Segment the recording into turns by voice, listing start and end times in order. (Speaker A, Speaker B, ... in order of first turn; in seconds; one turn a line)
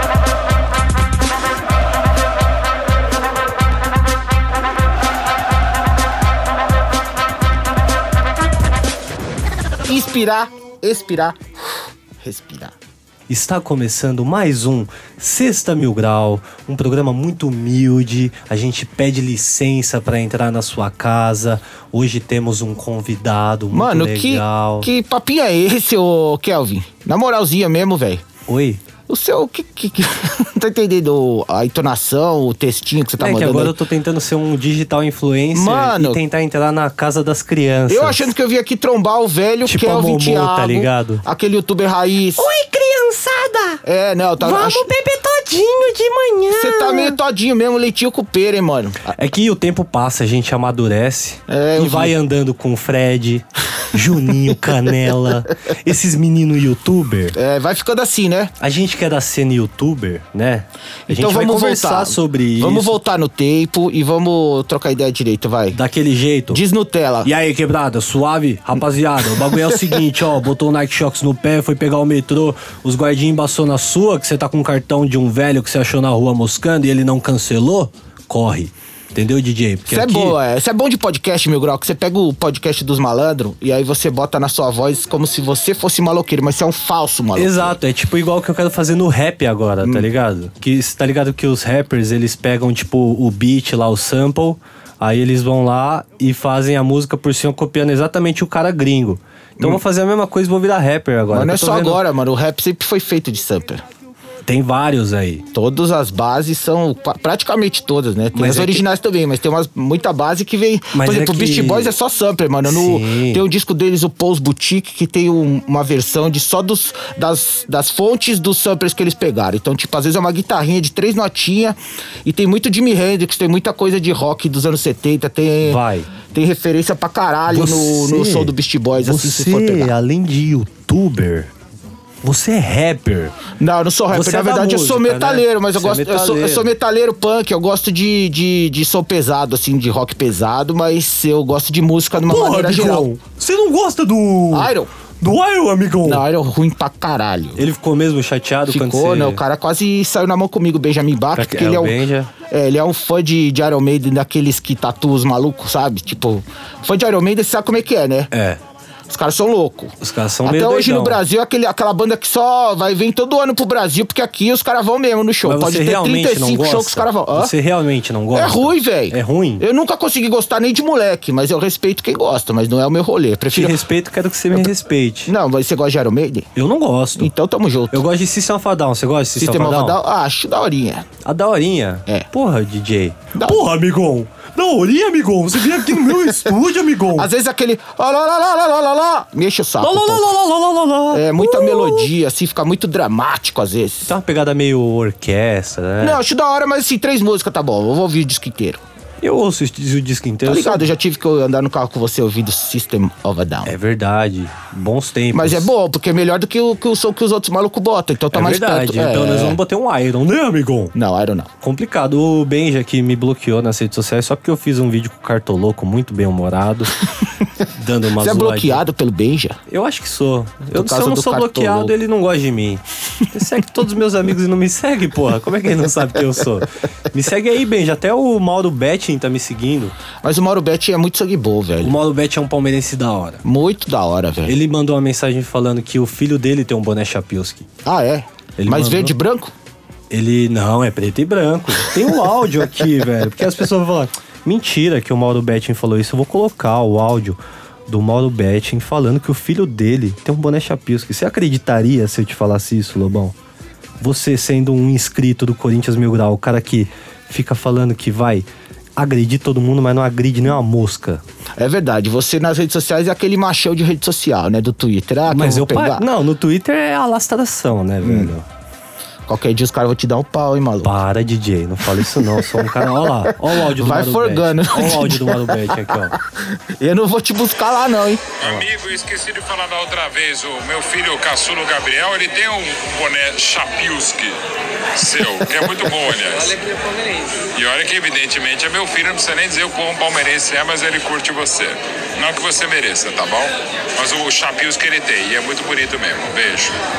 Speaker A: 9.8-12.7
Speaker B: 13.3-24.9
Speaker A: 23.7-28.2
Speaker B: 28.5-28.8
Speaker A: 29.1-33.7
Speaker B: 33.2-38.3
Speaker A: 35.5-36.2
Speaker A: 37.9-42.5
Speaker B: 39.6-41.2
Speaker B: 42.4-43.8
Speaker A: 43.8-44.9
Speaker B: 44.4-47.2
Speaker A: 46.6-49.1
Speaker B: 49.1-57.3
Speaker A: 51.5-52.1
Speaker A: 57.4-58.5
Speaker B: 58.6-62.9
Speaker A: 61.1-65.8
Speaker B: 65.7-66.6
Speaker A: 66.5-67.3
Speaker B: 67.2-80.3
Speaker A: 69.4-70.0
Speaker A: 79.9-87.8
Speaker B: 87.3-102.0
Speaker A: 101.3-103.8
Speaker B: 104.4-105.4
Speaker A: 105.5-125.8
Speaker B: 108.3-108.8
Speaker B: 110.9-111.9
Speaker B: 112.7-113.4
Speaker B: 125.6-126.1
Speaker A: 126.3-129.9
Speaker B: 127.5-131.5
Speaker B: 132.2-133.3
Speaker A: 133.6-143.1
Speaker B: 134.1-136.7
Speaker B: 142.2-146.2
Speaker A: 144.5-144.9
Speaker A: 146.0-147.7
Speaker B: 147.6-149.4
Speaker A: 148.7-158.3
Speaker B: 151.3-152.3
Speaker B: 158.3-158.6
Speaker A: 159.1-167.5
Speaker B: 160.0-161.2
Speaker B: 165.4-169.6
Speaker A: 168.3-173.8
Speaker B: 173.5-175.3
Speaker A: 175.3-176.5
Speaker B: 176.6-177.3
Speaker A: 177.2-178.0
Speaker B: 177.9-180.0
Speaker A: 179.4-181.1
Speaker B: 181.2-187.3
Speaker A: 183.4-183.6
Speaker A: 187.1-190.3
Speaker B: 189.8-192.1
Speaker A: 191.1-194.1
Speaker B: 194.1-196.2
Speaker A: 196.0-198.8
Speaker B: 199.2-200.9
Speaker A: 200.4-203.7
Speaker B: 203.6-205.7
Speaker A: 205.3-209.6
Speaker B: 208.3-210.9
Speaker A: 210.9-211.5
Speaker B: 211.6-216.9
Speaker B: 217.7-218.8
Speaker A: 218.2-219.6
Speaker B: 219.7-229.9
Speaker A: 220.7-221.9
Speaker A: 230.2-232.0
Speaker B: 231.8-233.4
Speaker A: 233.4-234.6
Speaker B: 234.5-237.7
Speaker A: 237.8-239.5
Speaker B: 238.6-239.1
Speaker B: 240.1-253.3
Speaker B: 254.0-261.2
Speaker A: 261.6-266.1
Speaker B: 265.3-268.4
Speaker A: 268.0-268.3
Speaker A: 269.3-270.9
Speaker B: 270.8-276.2
Speaker A: 272.0-278.2
Speaker C: 278.4-284.4
Speaker C: 284.9-296.8
Speaker A: 285.4-285.8